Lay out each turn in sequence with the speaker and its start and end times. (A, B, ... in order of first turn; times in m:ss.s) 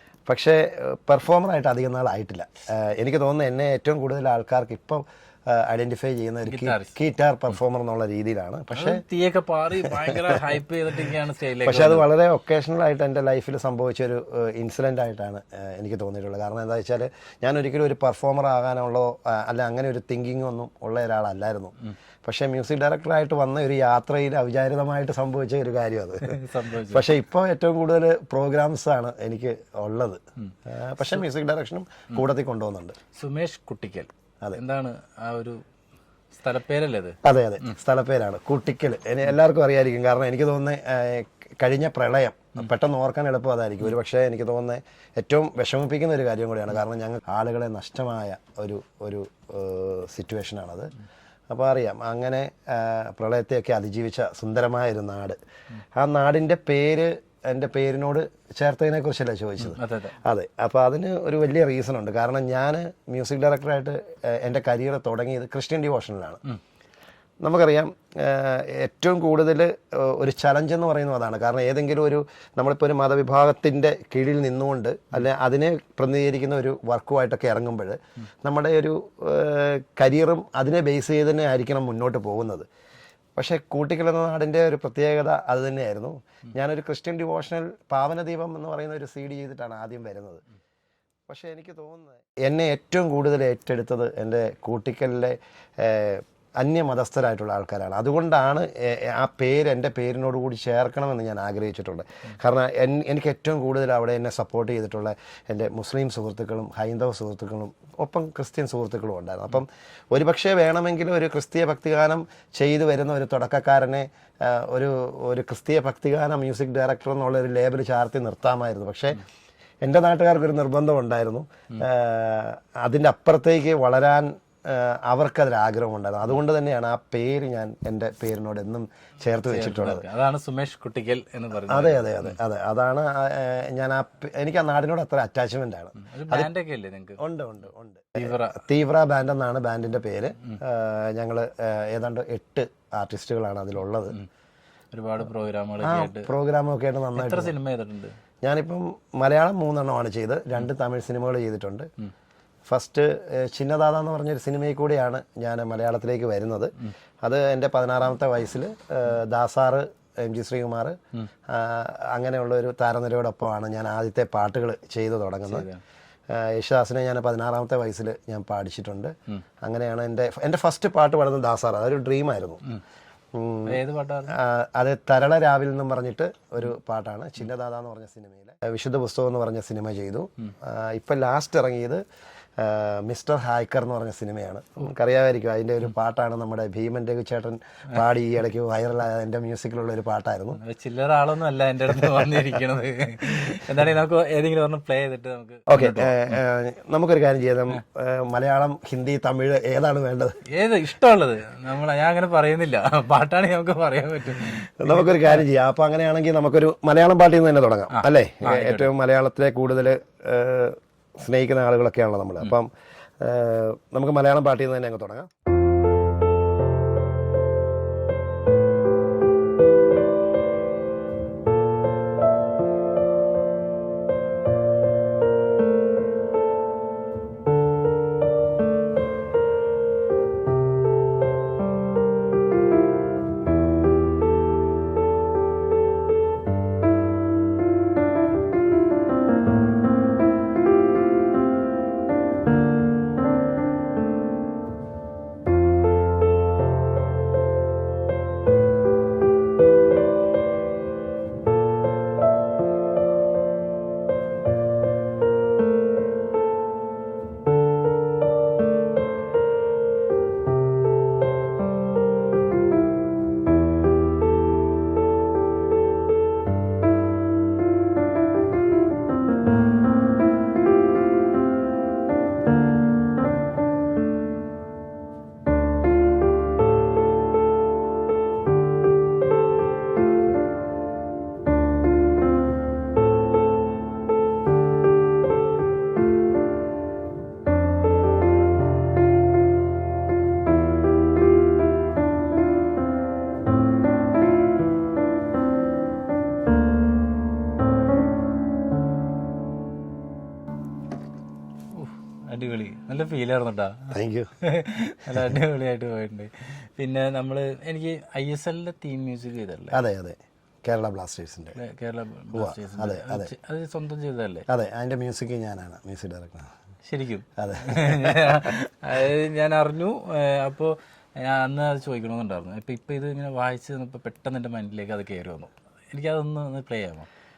0:00.3-0:09.0 A
0:06.4-0:06.9 B
0:08.7-0:12.1 B
0:09.8-0:10.3 A
0:11.6-0:33.0 A
0:26.2-0:27.1 B
0:33.1-0:35.6 B
0:36.4-0:37.7 B
0:37.2-0:50.9 A
0:51.5-0:55.4 A
0:56.0-1:06.4 A
0:59.6-1:00.2 B
1:07.4-1:22.7 A
1:23.4-1:30.4 A
1:31.3-1:59.2 A
1:59.8-2:10.1 A
2:09.5-2:12.4 B
2:11.7-2:16.5 A
2:16.0-2:17.2 B
2:17.2-2:24.2 A
2:18.2-2:18.6 B
2:24.9-2:26.3 B
2:25.8-2:27.5 A
2:27.2-2:28.2 B
2:28.4-2:31.9 A
2:32.7-2:36.7 A
2:37.2-2:41.0 A
2:41.5-2:45.7 A
2:45.5-2:45.8 B
2:46.3-2:52.7 A
2:53.4-3:02.0 A
2:53.7-2:54.4 B
3:02.6-3:10.6 A
3:10.5-3:16.4 B
3:15.7-3:20.4 A
3:20.5-3:25.4 B
3:24.8-3:32.7 A
3:27.9-3:28.9 B
3:33.2-3:35.3 A
5:01.7-5:09.8 B
5:03.9-5:04.3 A
5:09.7-5:11.6 A
5:11.6-5:14.5 B
5:12.3-5:13.3 A
5:14.5-5:16.5 A
5:16.9-5:27.1 B
5:17.4-5:18.4 A